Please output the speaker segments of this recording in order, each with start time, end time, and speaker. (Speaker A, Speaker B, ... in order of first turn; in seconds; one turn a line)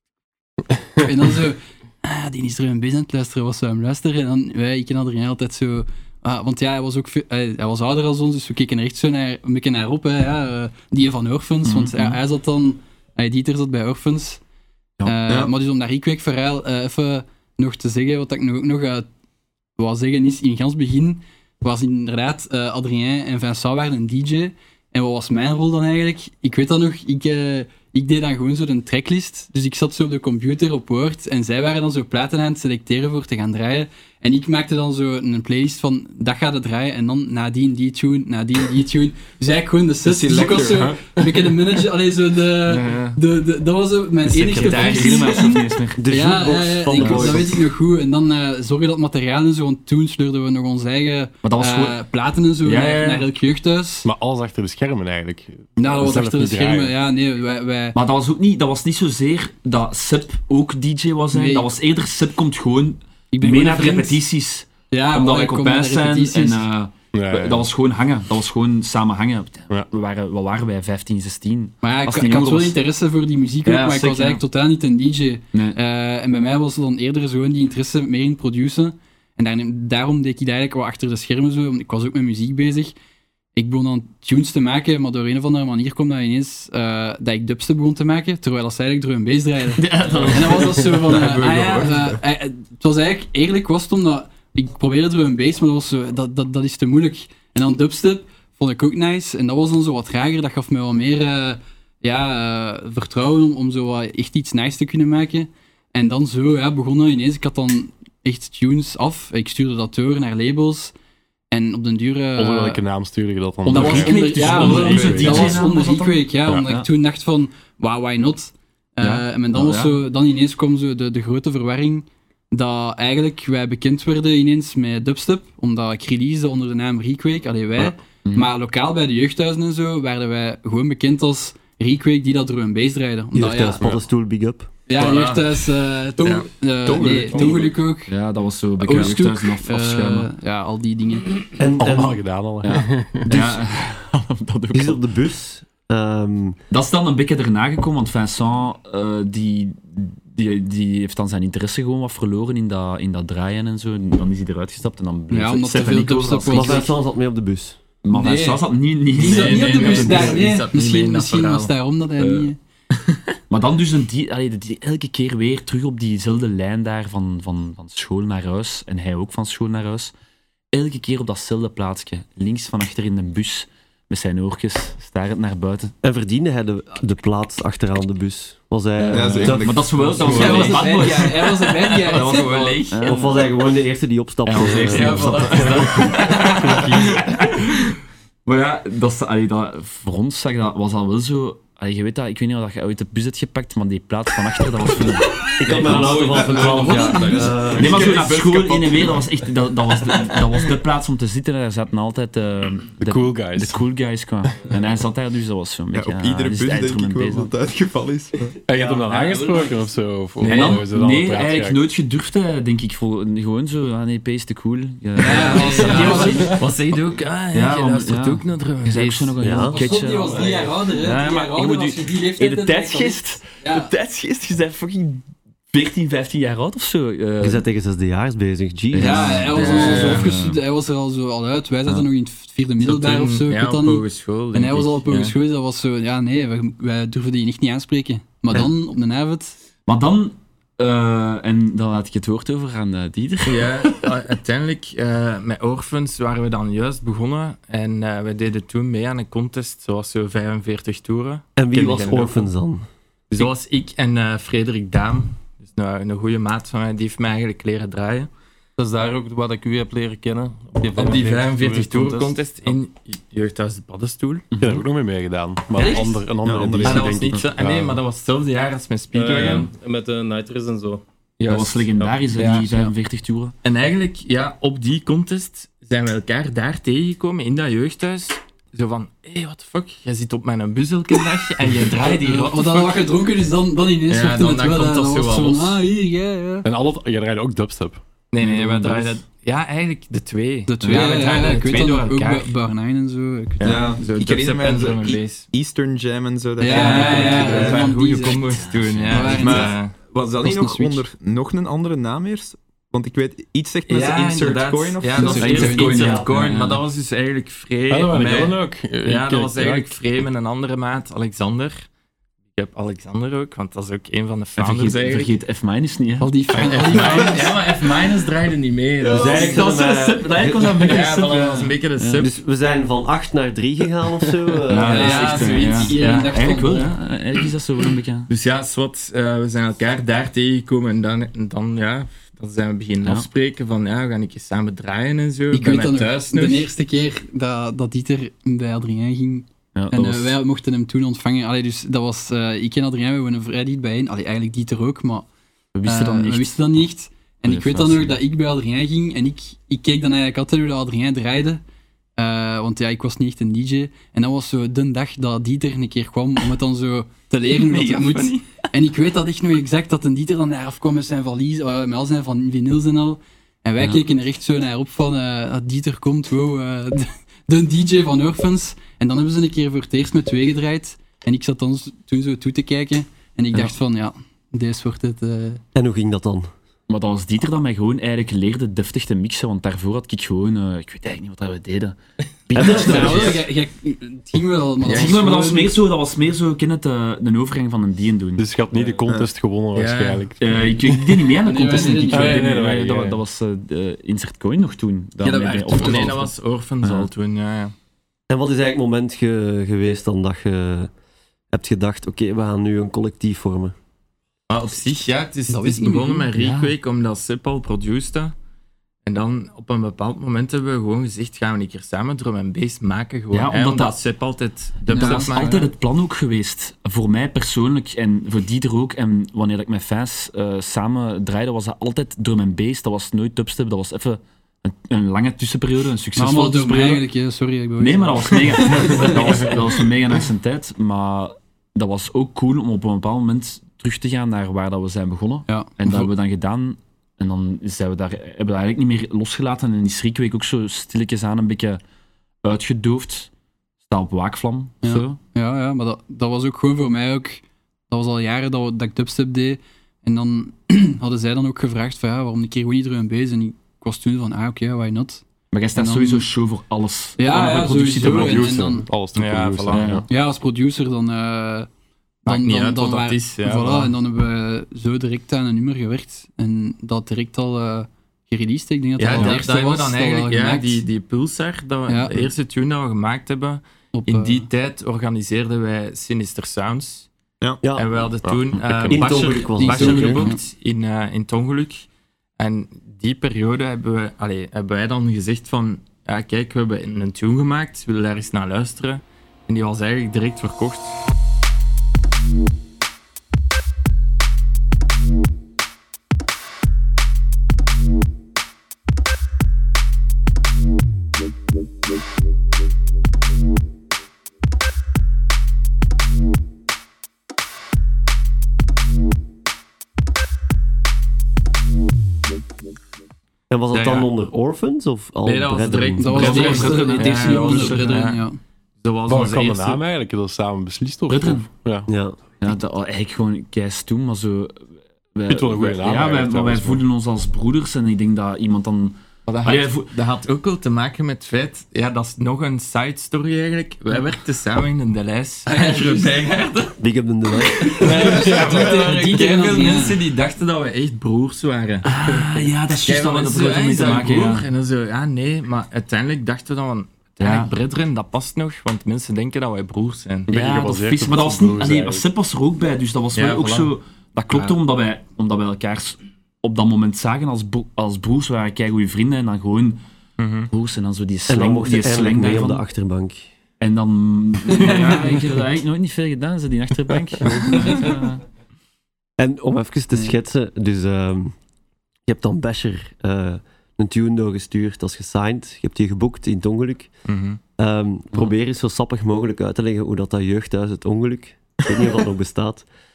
Speaker A: 1.0-14.4
Speaker B: 11.7-12.2
Speaker A: 15.0-19.1
Speaker A: 19.8-54.1
Speaker C: 40.1-40.8
Speaker D: 40.4-41.0
Speaker B: 42.7-43.2
Speaker B: 44.3-46.1
Speaker E: 44.5-45.4
Speaker F: 46.0-47.6
Speaker B: 47.0-47.5
Speaker B: 51.4-52.0
Speaker B: 52.6-53.3
Speaker D: 54.0-56.9
Speaker A: 55.8-58.0
Speaker B: 57.9-72.8
Speaker A: 61.3-61.7
Speaker A: 63.3-64.2
Speaker A: 64.9-66.7
Speaker D: 67.1-67.7
Speaker A: 71.8-82.9
Speaker B: 73.7-74.4
Speaker B: 75.5-75.8
Speaker A: 83.5-110.9
Speaker B: 89.8-91.9
Speaker C: 91.1-92.2
Speaker A: 111.5-112.8
Speaker D: 112.4-115.7
Speaker B: 113.7-116.9
Speaker A: 113.7-133.9
Speaker B: 119.0-120.0
Speaker F: 133.3-134.7
Speaker A: 134.9-138.1
Speaker E: 135.0-135.6
Speaker F: 136.9-137.7
Speaker B: 138.1-140.3
Speaker A: 138.8-141.3
Speaker F: 141.6-142.2
Speaker D: 141.8-143.3
Speaker B: 142.6-145.0
Speaker F: 143.3-143.8
Speaker F: 144.7-146.6
Speaker B: 146.7-156.9
Speaker A: 155.3-156.9
Speaker F: 156.5-157.8
Speaker B: 158.0-160.4
Speaker A: 158.1-162.6
Speaker E: 159.2-161.7
Speaker B: 162.2-162.5
Speaker E: 162.9-163.3
Speaker B: 163.5-170.1
Speaker B: 170.7-175.9
Speaker F: 176.0-180.6
Speaker B: 179.0-181.6
Speaker C: 179.1-180.7
Speaker E: 180.1-183.5
Speaker A: 180.2-182.8
Speaker B: 182.3-183.3
Speaker F: 183.1-186.1
Speaker B: 184.4-187.8
Speaker E: 184.5-188.0
Speaker B: 188.4-196.1
Speaker F: 195.6-198.2
Speaker E: 195.7-197.1
Speaker G: 195.9-198.2
Speaker A: 196.8-197.6
Speaker B: 197.7-207.5
Speaker C: 197.9-199.0
Speaker D: 203.0-203.9
Speaker C: 205.9-208.6
Speaker D: 208.7-211.9
Speaker E: 208.8-209.8
Speaker E: 210.4-210.9
Speaker B: 210.4-216.6
Speaker A: 215.2-216.5
Speaker E: 215.2-219.3
Speaker B: 217.5-227.6
Speaker F: 219.4-219.8
Speaker A: 219.7-223.9
Speaker E: 220.2-220.6
Speaker F: 227.4-229.4
Speaker B: 228.9-230.6
Speaker A: 229.0-239.6
Speaker E: 229.5-230.3
Speaker E: 232.8-235.3
Speaker B: 239.9-243.9
Speaker E: 243.4-252.5
Speaker F: 251.6-252.8
Speaker E: 253.3-258.3
Speaker G: 258.8-262.7
Speaker E: 260.9-264.5
Speaker B: 264.5-264.8
Speaker D: 264.6-268.0
Speaker E: 265.8-266.2
Speaker C: 265.8-267.4
Speaker E: 266.8-269.7
Speaker G: 269.1-271.0
Speaker E: 271.4-272.7
Speaker B: 271.5-273.5
Speaker G: 272.0-272.4
Speaker E: 273.6-283.1
Speaker A: 282.0-286.7
Speaker E: 284.1-285.8
Speaker D: 286.6-288.0
Speaker E: 288.3-292.5
Speaker B: 288.4-289.2
Speaker A: 290.7-293.9
Speaker B: 290.8-291.2
Speaker B: 293.6-293.9
Speaker C: 293.6-297.8
Speaker E: 293.7-295.5
Speaker A: 296.6-299.7
Speaker E: 296.7-299.9
Speaker B: 297.0-297.6
Speaker B: 298.6-299.6
Speaker C: 299.4-305.8
Speaker A: 300.4-301.0
Speaker E: 303.9-311.9
Speaker A: 305.2-306.1
Speaker B: 305.4-306.8
Speaker F: 305.9-306.3
Speaker D: 307.9-310.0
Speaker E: 312.5-315.3
Speaker B: 314.6-316.3
Speaker A: 316.2-317.4
Speaker E: 316.5-319.6
Speaker B: 316.9-317.2
Speaker G: 318.6-319.5
Speaker F: 319.1-321.0
Speaker B: 319.3-322.3
Speaker E: 320.8-322.3
Speaker F: 322.2-325.4
Speaker B: 324.7-328.3
Speaker E: 324.9-326.5
Speaker A: 324.9-326.9
Speaker E: 328.3-336.7
Speaker A: 335.5-345.3
Speaker B: 339.8-340.4
Speaker B: 345.8-346.7
Speaker A: 345.9-351.6
Speaker B: 347.5-348.1
Speaker A: 352.2-375.6
Speaker E: 357.5-358.6
Speaker F: 375.8-376.5
Speaker B: 376.9-382.0
Speaker B: 382.5-383.4
Speaker A: 382.6-385.7
Speaker B: 384.8-388.5
Speaker E: 384.9-385.2
Speaker D: 388.4-391.3
Speaker E: 389.7-390.3
Speaker B: 390.4-397.1
Speaker A: 391.4-392.6
Speaker D: 392.1-393.2
Speaker E: 395.2-397.7
Speaker F: 398.3-400.9
Speaker F: 401.5-403.7
Speaker E: 404.5-408.4
Speaker A: 405.5-406.3
Speaker B: 406.4-406.8
Speaker E: 409.1-415.6
Speaker B: 413.3-413.9
Speaker A: 414.9-415.7
Speaker B: 414.9-427.0
Speaker A: 426.2-429.6
Speaker B: 427.8-441.8
Speaker A: 435.5-436.1
Speaker B: 442.4-443.3
Speaker B: 443.9-445.2
Speaker A: 444.8-455.2
Speaker B: 455.5-458.8
Speaker A: 455.8-456.3
Speaker A: 457.2-458.9
Speaker D: 458.0-460.1
Speaker E: 459.1-460.0
Speaker B: 459.7-460.0
Speaker A: 460.1-461.7
Speaker A: 462.2-470.8
Speaker E: 462.3-463.9
Speaker E: 469.0-477.1
Speaker A: 471.9-472.2
Speaker A: 473.9-474.5
Speaker F: 477.6-477.9
Speaker E: 477.8-481.9
Speaker D: 478.2-479.3
Speaker F: 478.9-480.3
Speaker A: 479.6-480.4
Speaker E: 482.4-491.0
Speaker F: 513.5-516.3
Speaker E: 513.7-514.1
Speaker E: 515.2-518.2
Speaker A: 516.0-518.4
Speaker B: 516.1-518.0
Speaker E: 518.8-519.8
Speaker D: 519.1-521.9
Speaker B: 521.1-521.5
Speaker F: 521.9-522.2
Speaker B: 522.4-529.9
Speaker D: 525.3-526.8
Speaker E: 529.3-536.8
Speaker A: 535.5-536.2
Speaker F: 536.8-537.9
Speaker E: 537.4-542.3
Speaker A: 537.8-540.0
Speaker D: 538.1-539.1
Speaker B: 541.8-544.5
Speaker E: 542.8-550.3
Speaker B: 547.2-547.5
Speaker D: 550.3-552.1
Speaker B: 550.3-559.8
Speaker E: 553.1-553.7
Speaker E: 554.3-554.6
Speaker E: 560.2-560.5
Speaker B: 560.5-562.6
Speaker F: 561.3-563.3
Speaker B: 563.6-568.2
Speaker F: 569.2-571.4
Speaker F: 572.1-576.9
Speaker E: 577.1-577.4
Speaker F: 577.6-582.7